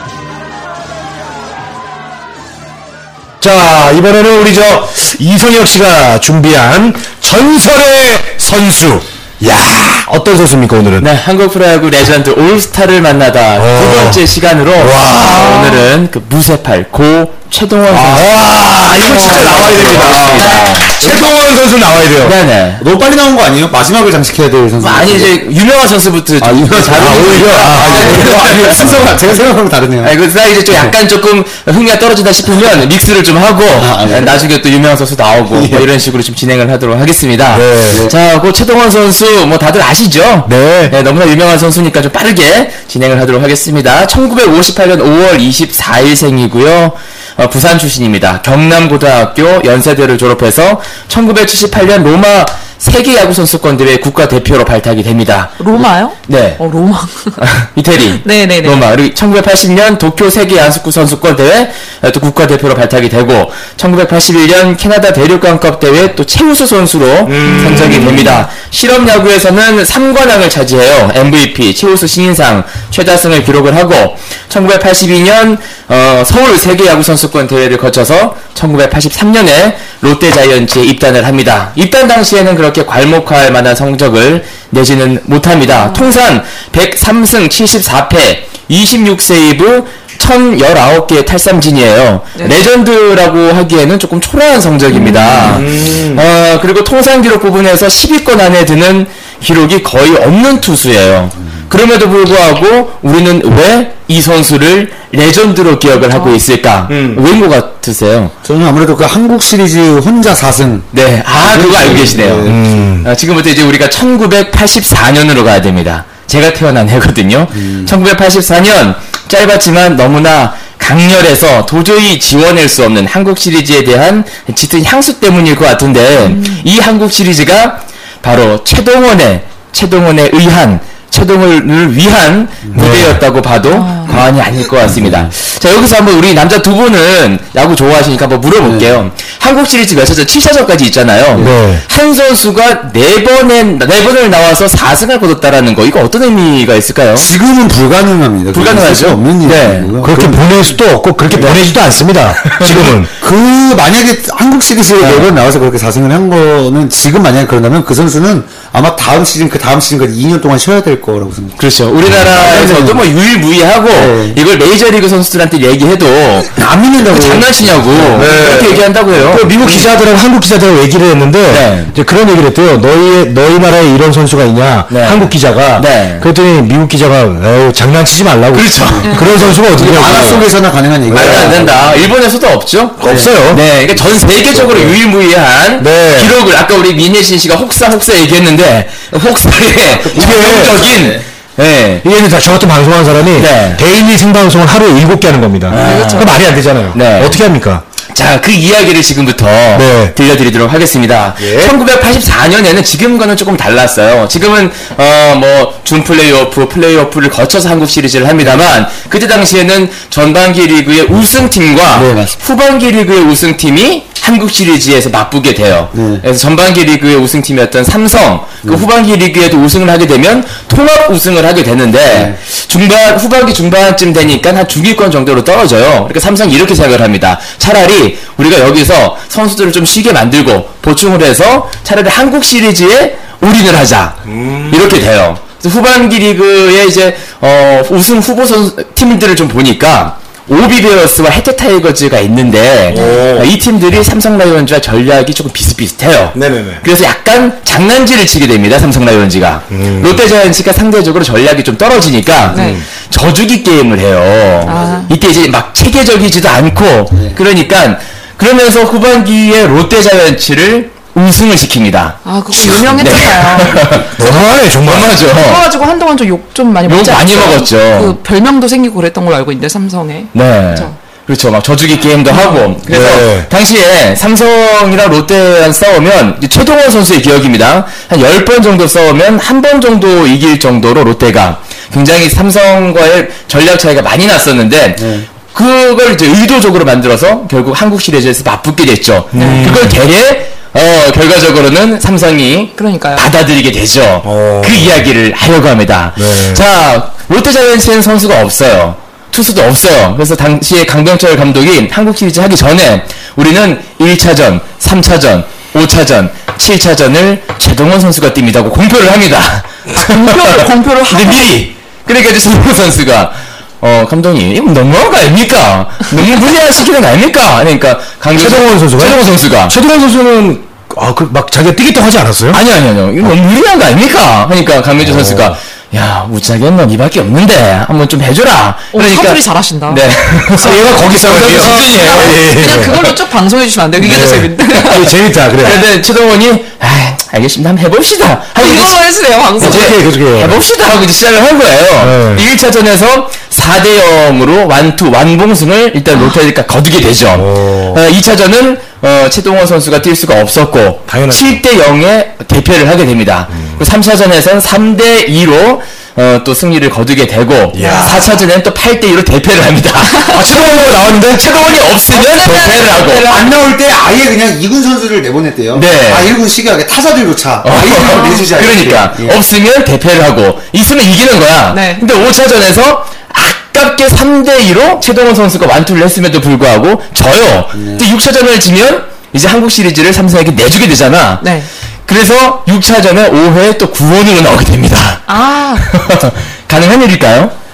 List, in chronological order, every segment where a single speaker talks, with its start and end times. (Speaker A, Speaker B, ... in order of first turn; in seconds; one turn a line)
Speaker A: 3.4-11.1
Speaker B: 11.0-18.3
Speaker A: 13.6-14.2
Speaker A: 14.8-15.7
Speaker C: 15.1-15.9
Speaker A: 17.9-22.4
Speaker D: 18.9-21.2
Speaker B: 20.3-21.0
Speaker B: 22.2-22.8
Speaker D: 22.8-25.3
Speaker B: 24.8-29.2
Speaker D: 26.4-30.2
Speaker A: 26.9-29.1
Speaker B: 30.0-56.6
Speaker D: 33.7-34.4
Speaker D: 35.5-35.9
Speaker A: 37.5-38.1
Speaker D: 37.9-38.2
Speaker A: 40.5-41.0
Speaker C: 55.6-57.4
Speaker B: 57.4-108.3
Speaker C: 58.2-58.8
Speaker A: 67.2-68.4
Speaker C: 67.4-68.2
Speaker C: 85.7-86.1
Speaker C: 94.9-95.6
Speaker A: 95.2-96.2
Speaker C: 105.9-106.4
Speaker A: 106.9-107.2
Speaker D: 108.4-112.8
Speaker B: 110.9-147.3
Speaker A: 112.4-113.1
Speaker D: 117.5-117.9
Speaker C: 126.2-126.7
Speaker D: 132.6-132.9
Speaker A: 132.7-133.2
Speaker C: 133.7-134.2
Speaker D: 134.1-135.3
Speaker D: 138.6-138.9
Speaker A: 141.4-141.8
Speaker D: 147.1-150.8
Speaker B: 148.5-150.0
Speaker A: 150.0-153.1
Speaker D: 151.3-151.6
Speaker B: 152.4-152.9
Speaker D: 153.2-161.6
Speaker B: 161.6-169.5
Speaker D: 162.1-163.1
Speaker D: 163.9-164.4
Speaker A: 166.5-180.5
Speaker D: 168.1-168.7
Speaker D: 169.6-169.9
Speaker B: 171.5-171.9
Speaker B: 174.9-176.3
Speaker B: 178.5-180.5
Speaker D: 178.9-182.1
Speaker C: 179.0-179.3
Speaker A: 181.1-181.7
Speaker B: 181.1-192.1
Speaker A: 183.0-183.6
Speaker D: 183.1-183.3
Speaker A: 184.5-184.9
Speaker D: 184.6-184.9
Speaker A: 185.8-186.3
Speaker D: 189.8-191.2
Speaker A: 190.1-190.8
Speaker A: 192.0-197.8
Speaker B: 193.3-193.8
Speaker B: 195.7-196.3
Speaker C: 195.8-196.3
Speaker B: 196.9-197.4
Speaker B: 198.1-264.2
Speaker A: 199.7-200.1
Speaker A: 201.4-201.8
Speaker D: 211.9-212.4
Speaker D: 215.9-216.2
Speaker D: 222.1-222.4
Speaker A: 234.2-234.9
Speaker A: 242.9-243.5
Speaker C: 242.9-243.2
Speaker A: 246.3-246.8
Speaker A: 249.7-250.2
Speaker C: 252.5-252.8
Speaker A: 252.5-252.8
Speaker C: 254.7-255.1
Speaker D: 254.7-255.1
Speaker D: 257.1-257.4
Speaker C: 262.2-263.8
Speaker A: 264.1-265.2
Speaker B: 264.8-265.6
Speaker C: 265.3-270.9
Speaker B: 266.9-268.2
Speaker B: 270.3-319.8
Speaker C: 272.3-272.7
Speaker A: 272.9-273.5
Speaker D: 285.0-285.3
Speaker A: 289.3-290.0
Speaker C: 289.4-289.7
Speaker C: 292.8-293.3
Speaker A: 294.2-295.0
Speaker A: 296.2-296.6
Speaker C: 309.9-311.7
Speaker A: 318.4-322.6
Speaker B: 322.5-332.4
Speaker A: 325.0-325.6
Speaker C: 328.9-330.1
Speaker A: 330.5-333.1
Speaker C: 330.6-330.9
Speaker C: 331.4-335.2
Speaker A: 334.0-335.8
Speaker B: 335.6-339.0
Speaker C: 338.6-339.9
Speaker A: 339.6-340.6
Speaker B: 339.6-363.4
Speaker A: 342.0-342.5
Speaker A: 347.3-348.0
Speaker A: 351.1-351.6
Speaker A: 353.5-353.8
Speaker A: 357.7-358.3
Speaker C: 357.8-358.2
Speaker A: 360.3-361.5
Speaker C: 362.1-363.5
Speaker D: 363.2-369.4
Speaker B: 365.7-366.3
Speaker B: 367.6-381.5
Speaker C: 368.1-368.5
Speaker C: 371.7-372.0
Speaker D: 377.7-378.1
Speaker C: 381.4-381.7
Speaker B: 382.1-385.2
Speaker C: 385.3-385.9
Speaker B: 385.8-387.5